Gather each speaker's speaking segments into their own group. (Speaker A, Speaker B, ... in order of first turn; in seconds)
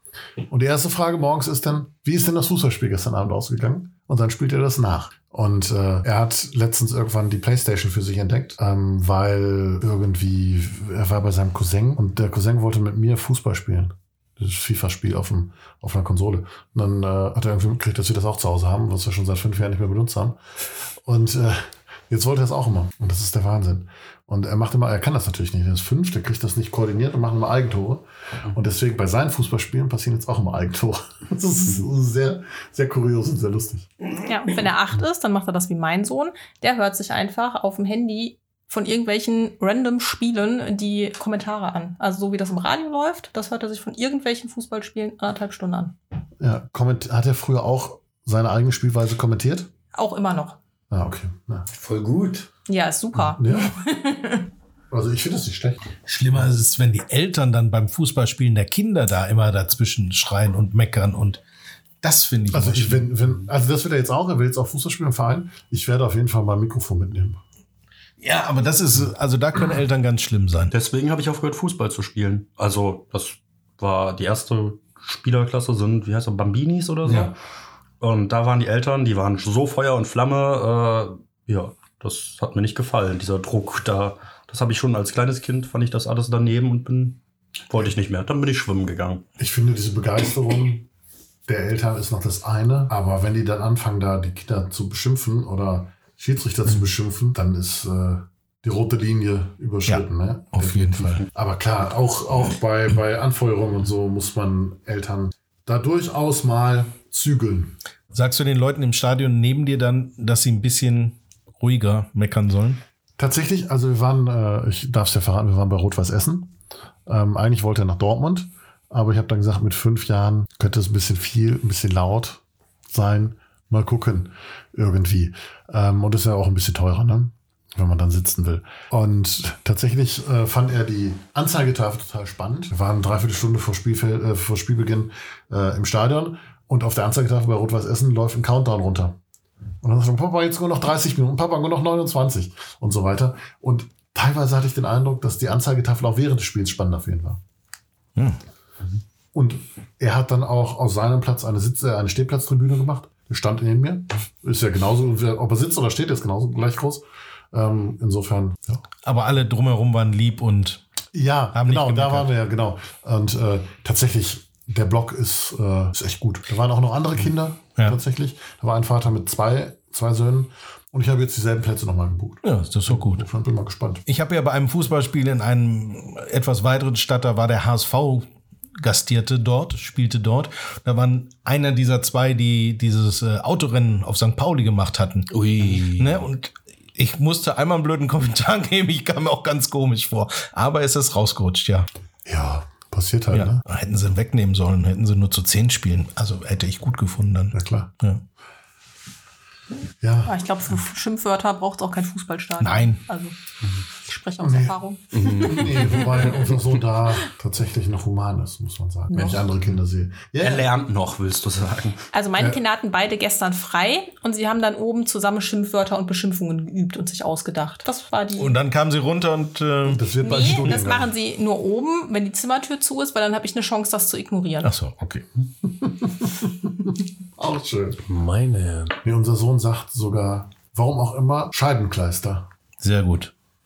Speaker A: 0.5-33.9, 46.4-49.7, 50.9-51.7, 53.2-53.8, 54.9-55.8, 62.5-67.4, 89.4-90.9, 91.5-107.8, 113.2-116.5, 117.1-139.2, 139.8-147.4, 149.3-158.8, 161.1-174.0, 192.3-193.6, 197.5-197.9, 200.0-200.4, 204.4-204.8, 205.3-210.7, 219.9-221.1, 225.7-226.7, 227.4-228.0, 229.0-232.5
Speaker B: 34.2-46.0, 49.9-50.6, 52.7-54.5, 200.3-203.3, 204.1-206.3, 209.1-209.4, 212.1-218.6, 220.2-224.7
Speaker C: 51.7-52.5, 185.3-186.3, 205.1-205.8, 228.1-229.0
Speaker D: 56.0-61.4, 62.0-63.1, 68.2-70.7, 77.1-77.3, 99.9-101.2, 108.1-112.8, 159.1-160.8, 161.5-162.3, 172.4-173.2, 174.1-178.3, 178.8-191.9, 193.3-198.2, 202.6-203.0, 218.3-220.1, 224.6-225.2, 232.8-233.3
Speaker E: 70.7-77.4, 78.0-89.2, 210.4-212.1